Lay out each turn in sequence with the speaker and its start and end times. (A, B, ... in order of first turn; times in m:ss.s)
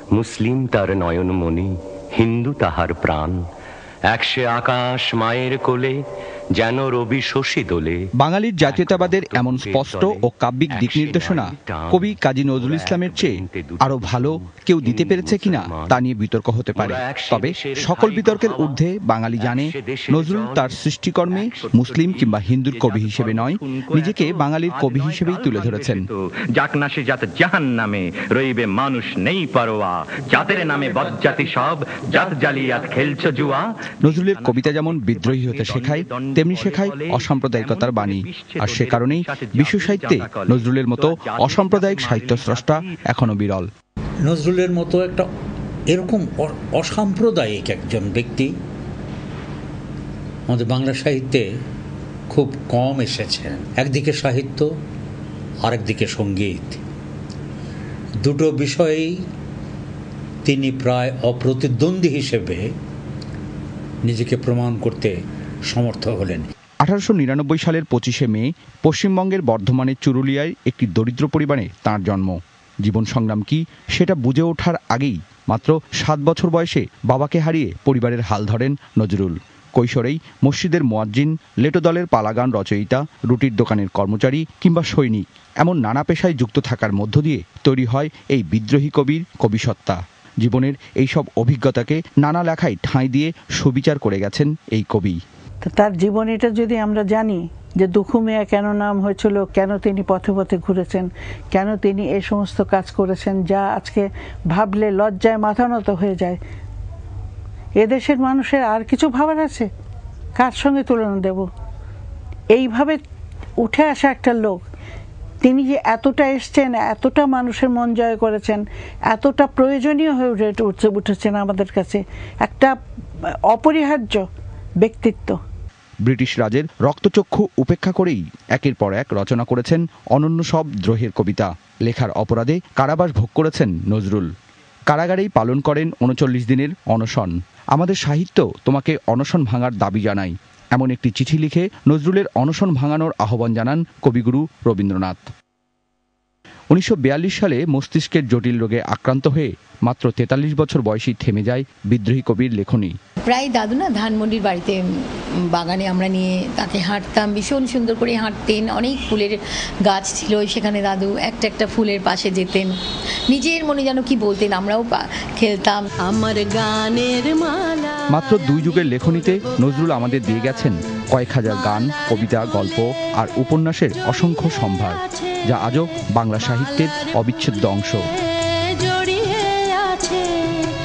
0:00.1-0:03.4 A
0:04.1-0:06.0 A
0:06.6-0:08.0 A
0:08.2-0:26.1 B
0:08.6-0:16.0 A
0:16.8-0:18.8 A
0:19.4-0:20.8 A
0:21.8-0:42.9 C
0:34.0-0:43.7 B
0:44.2-0:45.3 D
0:45.9-0:48.5 D
0:50.5-0:51.5 D
0:52.3-0:54.7 D
0:55.6-0:56.8 D
0:58.2-0:59.2 D
1:00.4-1:02.7 D
1:04.0-1:05.2 D
1:05.7-1:06.5 D
1:06.8-1:35.2 B
1:35.6-1:46.4 E
1:47.8-1:49.7 E
1:50.4-1:51.5 E
1:52.5-1:53.0 E
1:53.6-1:54.6 E
1:55.4-2:02.8 E
2:03.5-2:04.2 E
2:04.8-2:05.4 E
2:06.0-2:14.3 B
2:14.9-2:25.2 B
2:26.7-2:32.9 B
2:33.3-2:34.8 F
2:35.6-2:42.7 F
2:43.3-2:45.8 F
2:46.1-2:48.0 G
2:48.1-2:58.1 B
2:58.4-3:00.6 G